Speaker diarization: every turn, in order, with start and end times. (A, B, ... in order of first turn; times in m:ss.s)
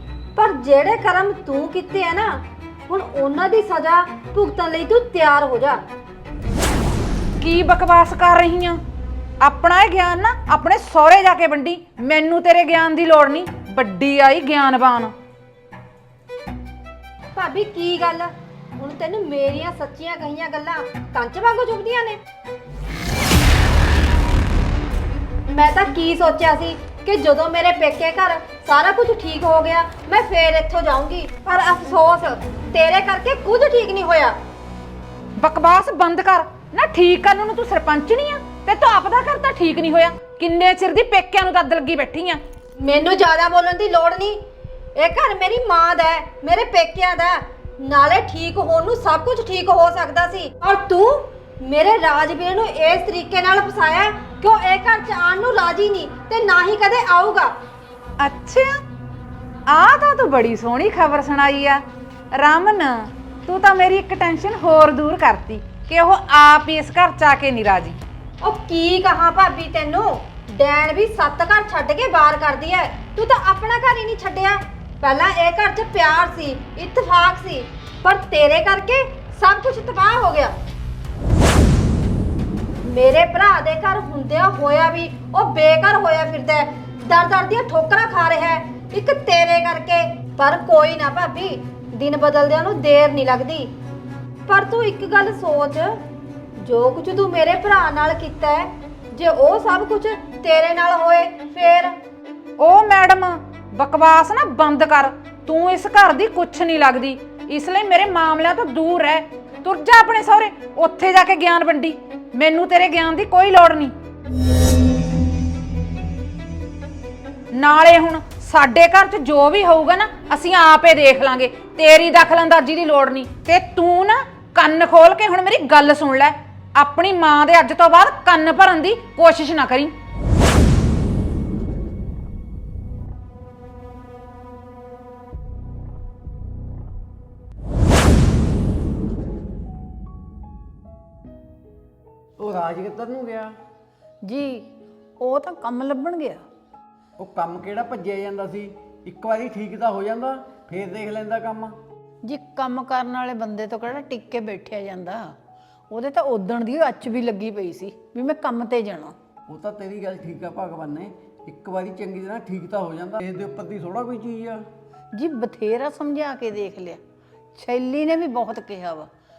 0:00.4-0:05.8 A
0:07.4-0:08.8 B
0:09.4-0:15.1 B
0:17.3-0:22.2 A
0:25.5-0:34.3 A
0:35.4-0:42.4 B
0:42.8-0:44.4 A
0:45.0-0:57.5 A
0:58.2-0:58.6 B
0:59.7-1:01.8 B
1:02.4-1:02.9 B
1:03.5-1:07.9 B
1:08.4-1:20.5 A
1:22.8-1:33.7 A
1:34.5-1:35.9 A
1:36.6-1:41.9 A
1:42.6-1:53.9 B
1:57.6-2:09.9 B
2:22.4-2:23.5 C
2:24.2-2:24.6 D
2:25.2-2:26.4 D
2:27.2-2:31.8 C
2:32.2-2:35.3 D
2:35.9-2:39.1 D
2:39.5-2:44.6 C
2:45.2-2:47.0 D
2:47.6-2:49.1 D